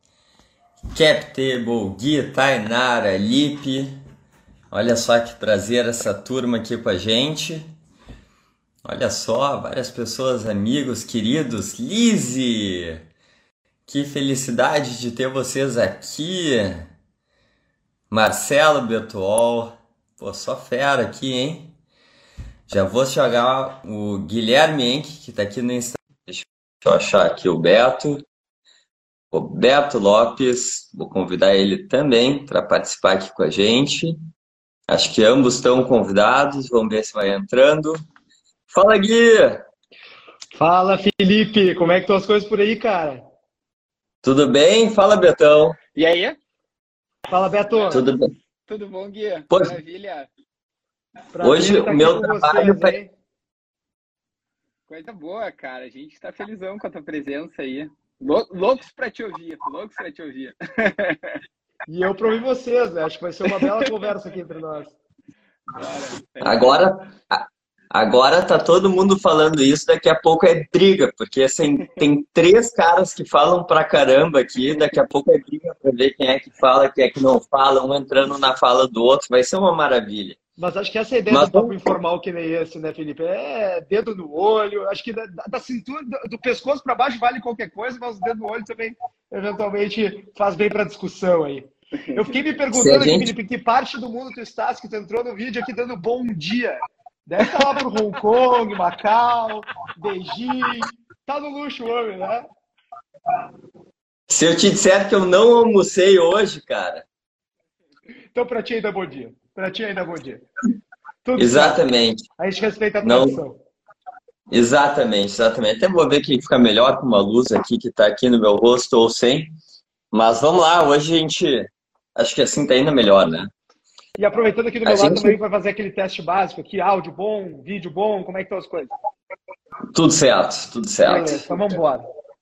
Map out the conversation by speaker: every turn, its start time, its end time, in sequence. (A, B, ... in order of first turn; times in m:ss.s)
0:00.9-0:04.0 A
0:04.7-0:07.6 A
0:08.8-0:13.0 A
0:13.9-0:16.9 A
0:18.1-0:21.7 A
0:22.7-0:28.2 A
0:29.3-0:34.2 A
0:34.9-0:38.0 A
0:38.7-0:39.6 A
0:40.5-0:43.2 B
0:44.2-0:45.8 A
0:45.9-0:46.4 C
0:47.3-0:48.0 B
0:47.7-0:48.1 C
0:47.9-0:48.2 A
0:48.7-0:50.3 C
0:49.5-0:49.8 A
0:51.3-0:53.1 B
0:51.4-0:52.9 A
0:54.9-1:01.4 C
1:01.9-1:04.9 B
1:03.6-1:03.8 C
1:05.7-1:06.8 C
1:06.4-1:20.4 A
1:20.6-1:42.4 B
1:21.3-1:21.8 A
1:32.1-1:32.3 C
1:32.7-1:33.3 A
1:44.3-1:47.0 A
1:48.3-1:50.4 B
1:51.2-1:51.8 B
1:51.4-1:52.2 A
1:52.4-1:53.6 B
1:53.0-1:53.4 A
1:54.5-1:59.5 A
2:00.1-2:03.5 A
2:04.2-2:08.9 B
2:04.8-2:05.4 A
2:09.9-2:11.6 A
2:11.0-2:12.1 B